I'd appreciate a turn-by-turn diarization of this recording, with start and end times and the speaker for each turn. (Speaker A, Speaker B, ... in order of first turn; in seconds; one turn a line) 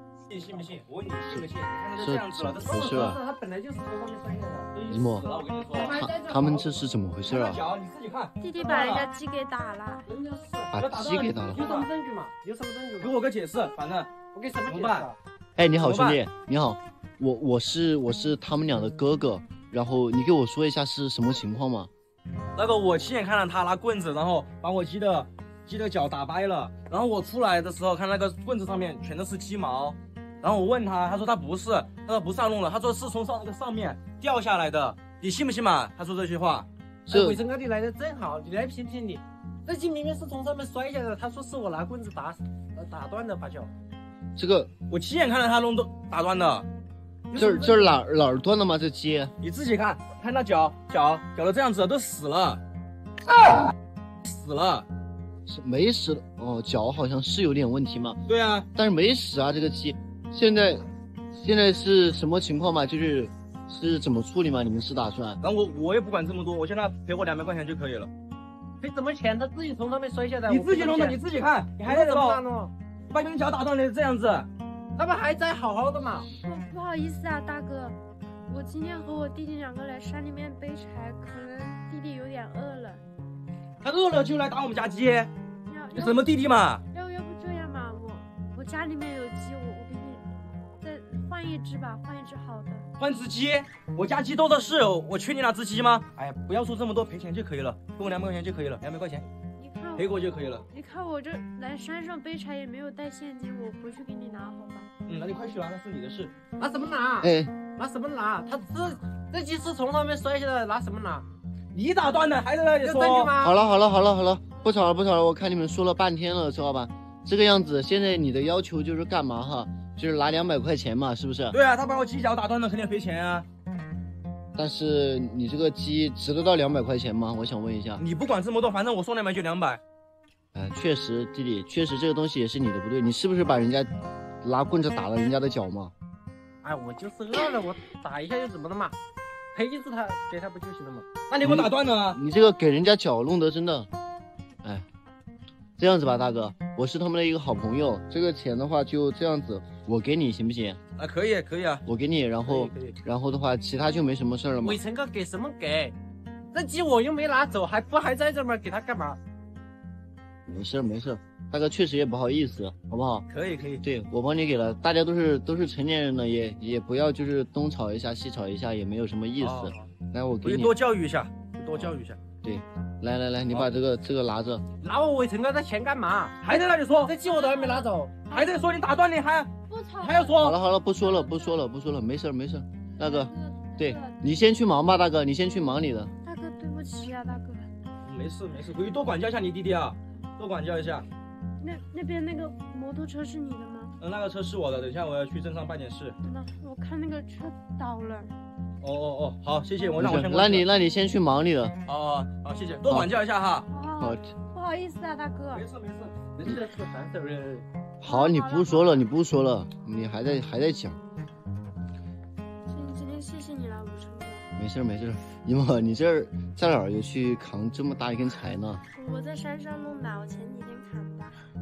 Speaker A: 0.3-3.0
Speaker B: 1.3-3.2
Speaker C: 2.6-4.7
Speaker A: 4.7-6.6
Speaker B: 4.9-7.6
Speaker C: 6.0-6.4
Speaker A: 7.2-9.1
Speaker D: 8.4-10.1
Speaker C: 10.1-10.7
Speaker B: 10.7-11.7
Speaker A: 10.7-11.9
Speaker C: 11.4-13.1
Speaker A: 13.0-15.1
Speaker C: 14.3-15.2
Speaker B: 15.6-21.9
Speaker A: 15.8-16.2
Speaker A: 22.6-36.7
Speaker B: 37.1-37.4
Speaker C: 37.1-43.7
Speaker B: 44.4-44.7
Speaker A: 44.9-46.7
Speaker C: 47.3-47.9
Speaker B: 47.3-49.3
Speaker A: 49.4-52.6
Speaker A: 54.2-54.9
Speaker B: 55.5-58.2
Speaker A: 58.3-58.7
Speaker B: 58.7-65.4
Speaker A: 65.4-68.1
Speaker C: 68.8-71.2
Speaker A: 70.5-72.4
Speaker C: 71.8-72.7
Speaker A: 73.1-74.5
Speaker C: 75.0-76.3
Speaker D: 76.4-83.0
Speaker A: 83.8-85.3
Speaker D: 85.7-86.3
Speaker A: 85.9-86.8
Speaker D: 86.9-90.3
Speaker D: 90.8-92.9
Speaker A: 93.0-99.3
Speaker D: 99.6-104.9
Speaker A: 100.0-100.6
Speaker A: 105.0-106.3
Speaker C: 106.6-111.2
Speaker B: 107.2-107.5
Speaker A: 111.7-113.3
Speaker C: 112.8-113.6
Speaker B: 113.4-121.6
Speaker A: 121.5-123.5
Speaker B: 124.5-128.0
Speaker A: 128.0-129.8
Speaker B: 130.5-133.9
Speaker B: 134.4-135.9
Speaker C: 136.6-138.9
Speaker C: 139.5-141.1
Speaker A: 141.3-142.2
Speaker B: 141.4-143.9
Speaker B: 145.8-150.8
Speaker A: 151.0-151.8
Speaker B: 151.8-154.8
Speaker C: 152.4-153.0
Speaker C: 154.6-155.9
Speaker C: 156.5-159.2
Speaker B: 160.4-163.2
Speaker A: 163.3-163.8
Speaker B: 163.8-170.7
Speaker A: 169.4-169.9
Speaker A: 170.4-172.2
Speaker B: 171.7-174.6
Speaker C: 174.8-176.4
Speaker A: 176.4-177.1
Speaker C: 176.9-178.2
Speaker D: 177.2-178.7
Speaker A: 178.2-180.6
Speaker D: 179.7-180.5
Speaker B: 180.4-186.1
Speaker D: 181.0-181.6
Speaker D: 183.0-184.2
Speaker D: 186.2-187.7
Speaker A: 188.0-191.1
Speaker D: 191.6-193.9
Speaker A: 194.0-196.2
Speaker D: 196.2-198.3
Speaker A: 198.8-200.7
Speaker B: 199.9-201.8
Speaker A: 201.8-203.7
Speaker B: 202.9-203.1
Speaker D: 203.7-205.6
Speaker B: 204.0-204.3
Speaker A: 205.5-206.2
Speaker C: 206.3-207.7
Speaker B: 208.0-211.0
Speaker D: 208.0-209.0
Speaker D: 212.7-214.4
Speaker B: 214.6-218.8
Speaker D: 218.9-221.4